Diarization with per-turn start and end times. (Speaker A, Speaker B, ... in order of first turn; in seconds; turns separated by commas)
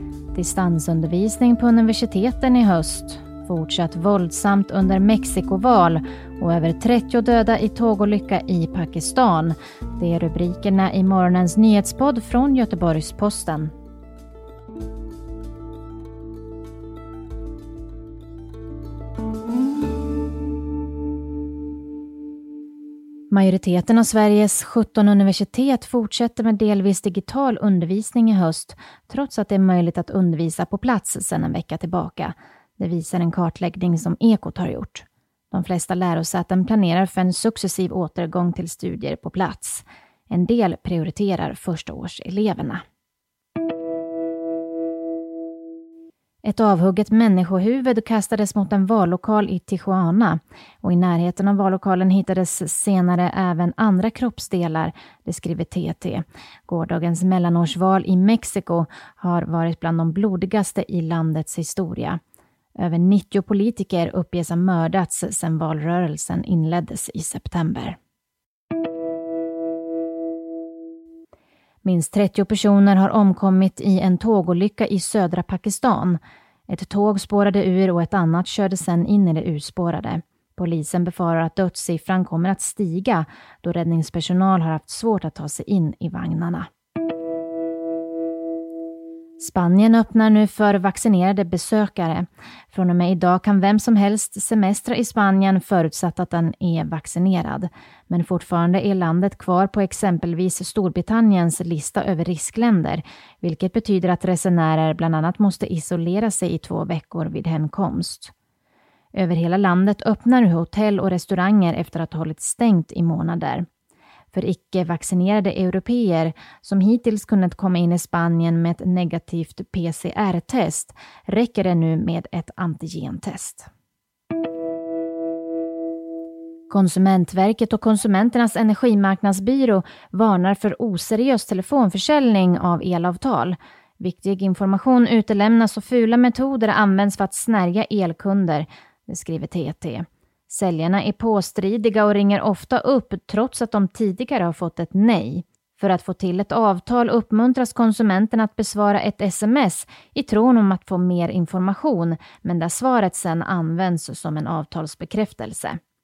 Speaker A: 0.3-13.7, Speaker A: 23.3-42.8, Speaker A: 46.4-62.2, Speaker A: 62.8-68.0, Speaker A: 71.8-86.7, Speaker A: 89.4-108.3, Speaker A: 109.1-113.7, Speaker A: 114.3-123.7, Speaker A: 126.7-155.8